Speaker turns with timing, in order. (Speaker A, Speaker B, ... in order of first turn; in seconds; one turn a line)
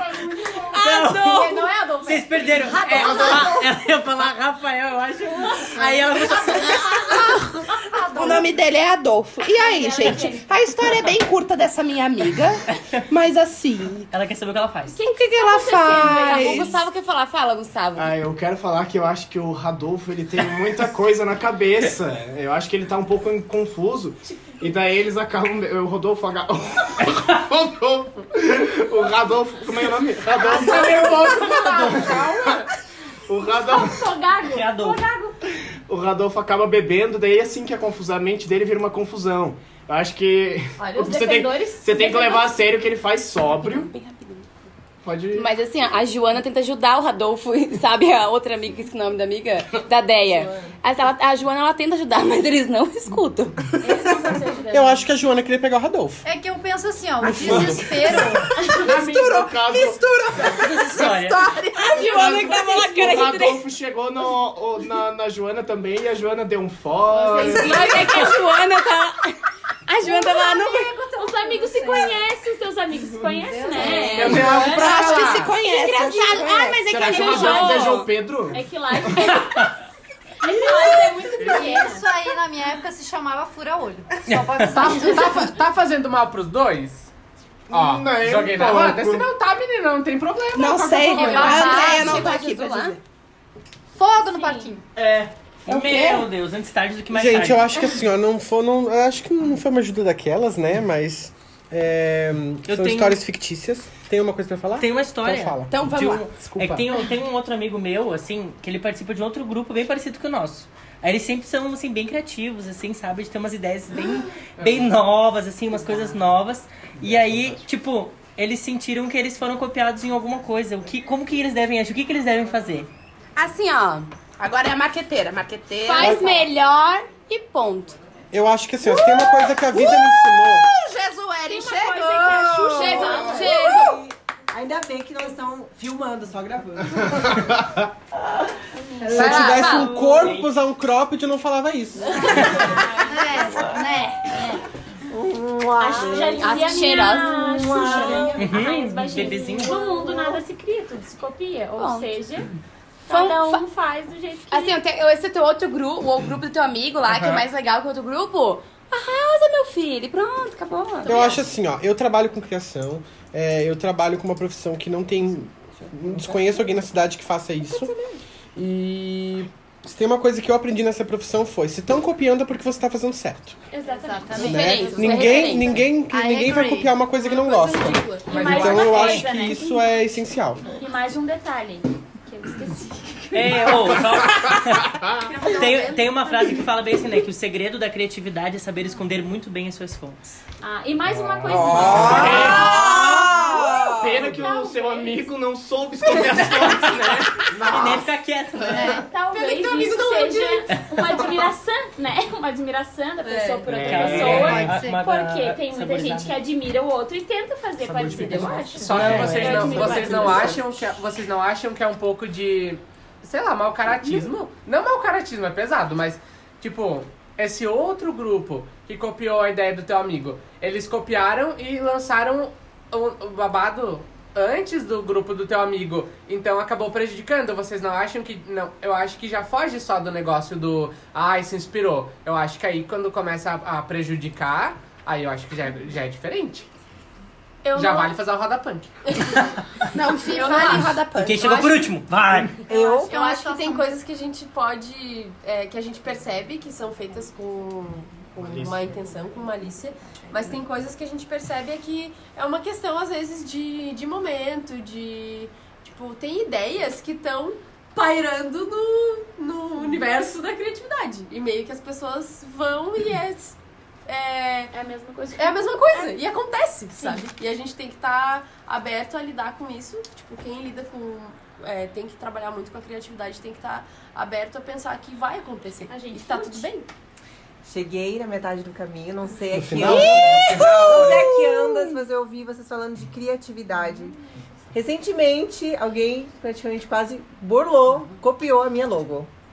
Speaker A: 0.1-1.1
Speaker B: 0.7-7.0
Speaker C: 0.7-1.6
Speaker D: 1.1-3.6
Speaker D: 5.3-8.5
Speaker C: 6.4-7.4
Speaker C: 8.1-14.1
Speaker D: 9.4-10.7
Speaker B: 14.1-15.0
Speaker D: 14.9-16.7
Speaker C: 15.0-16.8
Speaker E: 15.9-18.1
Speaker F: 17.9-32.3
Speaker D: 24.2-24.8
Speaker G: 30.4-32.7
Speaker D: 30.6-31.6
Speaker F: 33.3-34.0
Speaker D: 33.4-35.4
Speaker B: 34.4-35.0
Speaker F: 35.9-43.9
Speaker D: 40.8-42.6
Speaker E: 43.6-44.5
Speaker F: 45.0-45.5
Speaker E: 45.3-53.6
Speaker D: 53.8-55.1
Speaker H: 54.7-56.2
Speaker I: 56.2-58.6
Speaker H: 57.2-58.2
Speaker F: 57.3-57.8
Speaker D: 58.4-58.9
Speaker F: 58.8-60.6
Speaker C: 58.8-62.8
Speaker B: 60.5-61.4
Speaker E: 61.8-63.6
Speaker F: 61.9-67.9
Speaker D: 67.1-68.4
Speaker E: 67.5-70.9
Speaker D: 70.0-75.0
Speaker A: 71.2-72.0
Speaker E: 73.8-74.4
Speaker C: 74.1-76.9
Speaker G: 74.1-75.5
Speaker F: 74.2-74.7
Speaker E: 75.6-78.1
Speaker F: 76.9-78.7
Speaker D: 77.0-77.8
Speaker D: 78.5-79.7
Speaker B: 79.2-79.7
Speaker D: 80.4-82.1
Speaker I: 80.7-85.5
Speaker G: 81.4-81.8
Speaker B: 84.3-84.9
Speaker G: 84.7-87.1
Speaker F: 87.7-89.2
Speaker G: 87.7-91.9
Speaker C: 90.5-93.0
Speaker E: 91.1-93.0
Speaker I: 91.2-91.7
Speaker D: 91.3-92.2
Speaker I: 93.9-94.8
Speaker D: 94.2-94.8
Speaker B: 94.9-97.8
Speaker C: 95.7-96.3
Speaker H: 97.1-106.9
Speaker B: 102.7-103.2
Speaker B: 104.8-122.9
Speaker E: 105.7-106.2
Speaker F: 117.0-117.6
Speaker E: 123.3-124.1
Speaker C: 124.4-126.3
Speaker E: 125.8-128.0
Speaker H: 126.0-126.3
Speaker H: 128.3-130.7
Speaker C: 128.8-133.9
Speaker D: 131.5-133.9
Speaker E: 132.8-134.0
Speaker J: 133.9-137.6
Speaker D: 138.8-139.9
Speaker J: 139.0-139.8
Speaker E: 139.1-139.9
Speaker H: 139.1-142.6
Speaker B: 139.2-140.5
Speaker D: 142.1-143.7
Speaker I: 142.6-144.6
Speaker D: 144.3-144.6
Speaker J: 145.1-146.4
Speaker D: 145.8-152.5
Speaker E: 146.0-148.2
Speaker J: 147.8-148.2
Speaker B: 148.4-150.0
Speaker E: 151.8-152.2
Speaker D: 153.1-154.8
Speaker E: 153.1-153.6
Speaker E: 154.5-161.3
Speaker B: 157.1-157.4
Speaker A: 161.0-161.4
Speaker H: 161.1-167.9
Speaker H: 168.5-173.6
Speaker D: 173.7-175.4
Speaker I: 173.9-174.7
Speaker E: 174.4-175.9
Speaker H: 174.4-180.7
Speaker A: 174.8-175.2
Speaker I: 176.0-177.0
Speaker A: 177.1-178.5
Speaker D: 178.2-180.0
Speaker B: 178.6-179.4
Speaker D: 180.7-184.4
Speaker B: 183.3-190.2
Speaker D: 185.0-186.0
Speaker A: 185.1-186.2
Speaker D: 190.6-195.3
Speaker H: 191.4-193.2
Speaker F: 191.7-193.2
Speaker C: 192.3-194.1
Speaker A: 193.2-193.6
Speaker F: 193.8-198.0
Speaker B: 196.0-199.0
Speaker F: 198.6-198.9
Speaker I: 198.6-199.1
Speaker D: 199.0-210.8
Speaker A: 199.3-201.3
Speaker A: 203.2-203.6
Speaker F: 203.7-204.8
Speaker B: 203.7-206.4
Speaker I: 204.4-205.0
Speaker F: 207.8-210.2
Speaker G: 208.8-236.7
Speaker B: 208.9-209.9
Speaker H: 209.0-209.7
Speaker A: 237.6-238.1
Speaker G: 237.7-238.9
Speaker A: 239.1-239.5
Speaker C: 239.9-241.9
Speaker A: 240.2-241.0
Speaker B: 241.1-242.6
Speaker I: 242.7-243.9
Speaker J: 242.7-243.1
Speaker A: 243.1-264.7
Speaker F: 248.4-248.9
Speaker D: 259.8-260.0
Speaker D: 264.7-266.1
Speaker A: 265.4-276.9
Speaker D: 266.9-267.3
Speaker D: 275.9-276.7
Speaker J: 277.6-284.1
Speaker H: 279.5-281.0
Speaker C: 279.8-281.9
Speaker J: 284.7-289.3